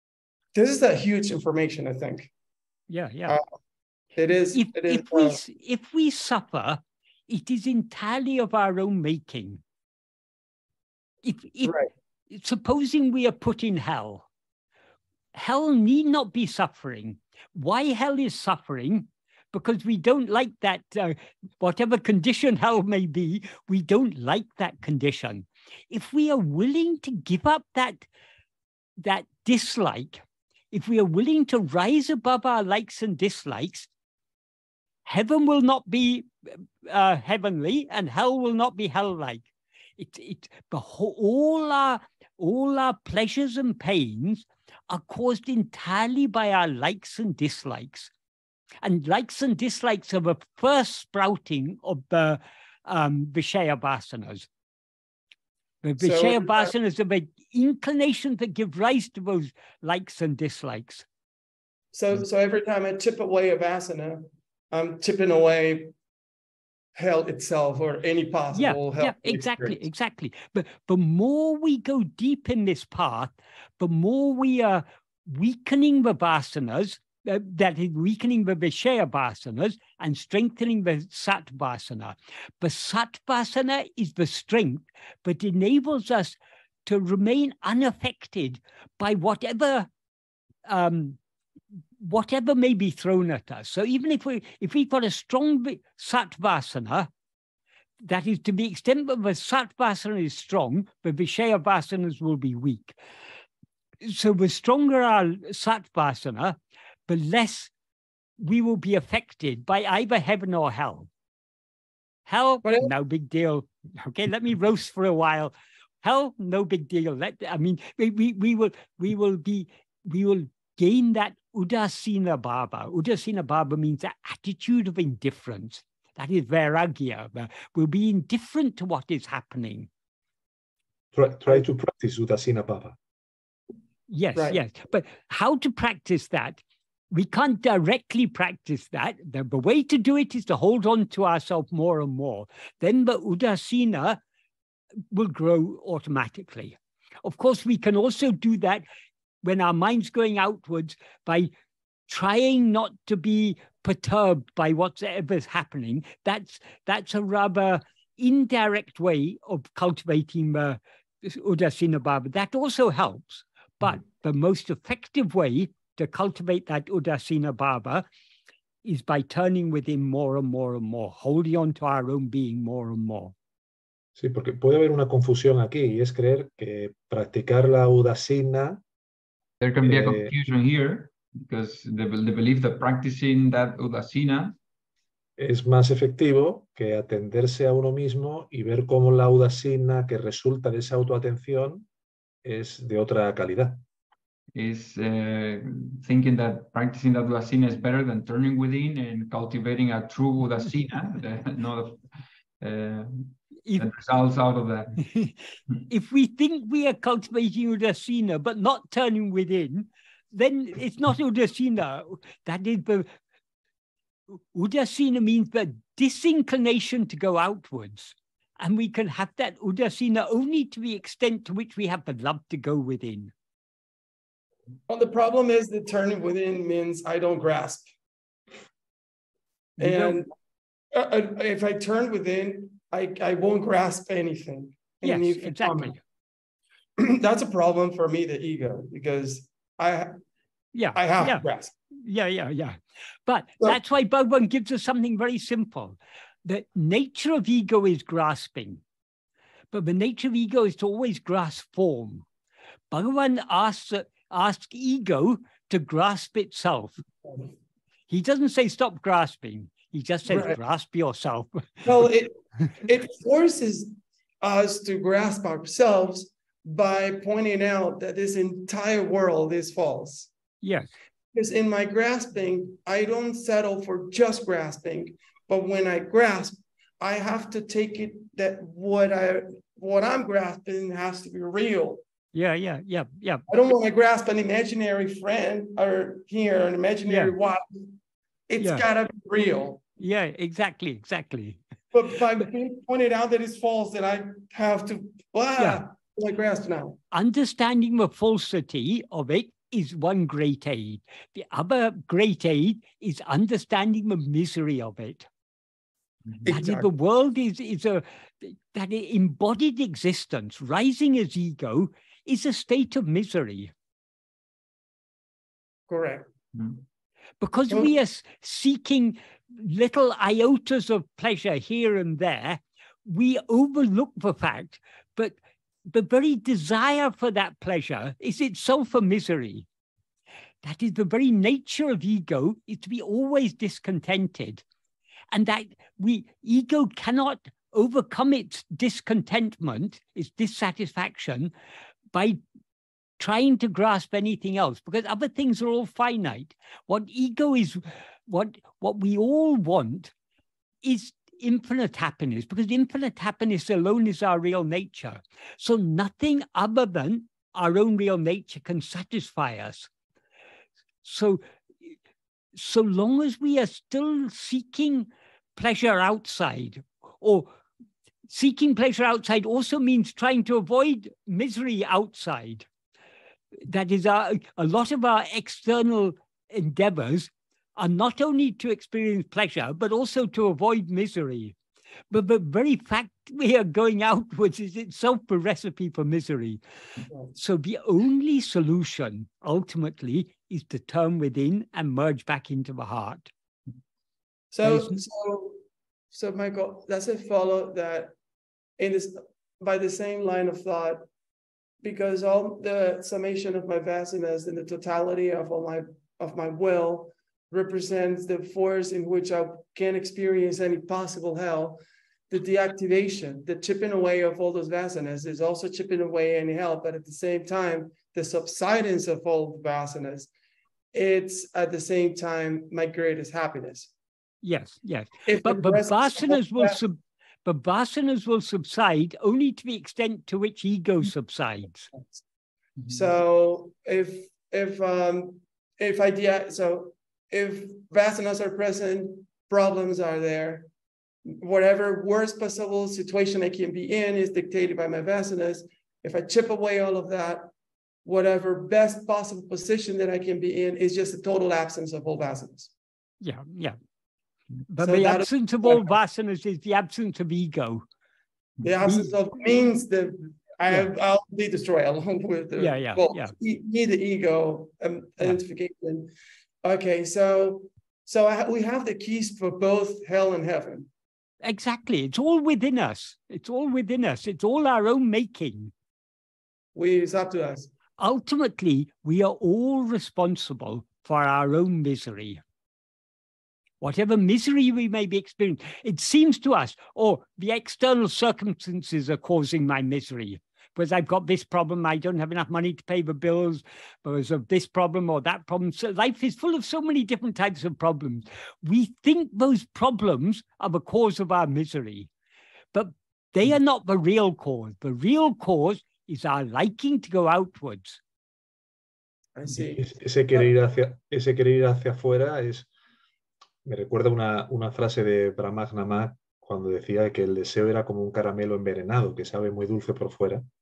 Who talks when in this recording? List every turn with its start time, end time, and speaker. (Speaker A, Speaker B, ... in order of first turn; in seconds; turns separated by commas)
Speaker A: 0.5-2.3, Speaker B: 2.9-3.4, Speaker A: 4.2-5.4, Speaker B: 4.5-9.6, Speaker B: 11.2-14.3, Speaker A: 11.6-11.9, Speaker B: 15.3-28.1, Speaker B: 29.0-33.9, Speaker B: 35.0-39.5, Speaker B: 40.0-48.1, Speaker B: 48.8-54.5, Speaker B: 55.8-61.0, Speaker A: 56.0-56.7, Speaker A: 61.9-65.9, Speaker A: 67.0-69.8, Speaker B: 68.5-89.9, Speaker B: 90.7-91.2, Speaker B: 92.0-97.1, Speaker B: 98.0-103.0, Speaker B: 104.0-106.6, Speaker B: 107.1-107.7, Speaker B: 108.4-111.1, Speaker B: 112.3-129.9, Speaker A: 112.6-112.9, Speaker C: 131.1-132.9, Speaker B: 134.1-144.2, Speaker B: 145.1-148.8, Speaker B: 149.4-151.5, Speaker B: 152.1-168.1, Speaker B: 168.8-173.3, Speaker C: 174.2-178.8, Speaker D: 179.6-184.6, Speaker C: 179.8-180.3, Speaker C: 185.4-191.9, Speaker C: 192.4-193.8, Speaker D: 194.5-202.0, Speaker D: 202.6-205.0, Speaker B: 205.1-205.3, Speaker B: 205.9-213.1, Speaker B: 214.5-223.3, Speaker A: 224.9-227.9, Speaker B: 229.8-230.2, Speaker A: 229.8-230.3, Speaker A: 230.9-236.0, Speaker B: 235.0-236.0, Speaker A: 237.0-240.2, Speaker B: 240.7-248.8, Speaker A: 240.9-241.7, Speaker B: 249.7-252.2, Speaker B: 252.9-257.0, Speaker B: 258.1-261.9, Speaker A: 260.3-260.6, Speaker A: 261.8-270.3, Speaker B: 270.6-270.9, Speaker A: 271.3-282.0, Speaker B: 282.3-283.4, Speaker A: 283.5-288.0, Speaker B: 287.1-287.3, Speaker A: 288.5-289.8, Speaker B: 288.6-288.9, Speaker B: 290.0-291.6, Speaker A: 291.9-297.0, Speaker B: 295.6-295.8, Speaker B: 297.1-305.3, Speaker A: 306.4-306.9, Speaker B: 306.5-313.7, Speaker A: 315.9-316.3, Speaker B: 317.4-329.7, Speaker B: 330.6-334.6, Speaker B: 335.3-341.5, Speaker B: 342.1-342.4, Speaker B: 343.2-350.1, Speaker B: 350.8-359.9, Speaker B: 361.0-361.9, Speaker B: 362.5-367.5, Speaker B: 368.3-372.7, Speaker B: 373.6-381.6, Speaker B: 382.1-386.6, Speaker B: 387.3-393.3, Speaker A: 394.5-395.6, Speaker B: 394.6-395.0, Speaker A: 396.1-398.1, Speaker A: 398.8-401.1, Speaker A: 401.8-411.8, Speaker A: 412.3-420.3, Speaker A: 420.9-423.9, Speaker B: 424.4-431.9, Speaker A: 425.2-426.8, Speaker A: 432.9-440.7, Speaker A: 441.4-447.5, Speaker A: 448.0-452.7, Speaker B: 453.2-453.8, Speaker B: 454.7-457.8, Speaker A: 454.8-455.9, Speaker A: 458.6-466.1, Speaker B: 458.8-459.1, Speaker B: 462.6-463.3, Speaker A: 466.6-470.9, Speaker B: 471.4-475.7, Speaker A: 476.7-477.7, Speaker B: 478.0-482.4, Speaker B: 483.8-502.1, Speaker B: 502.7-508.0, Speaker A: 509.4-510.5, Speaker C: 509.6-512.7, Speaker C: 513.6-520.4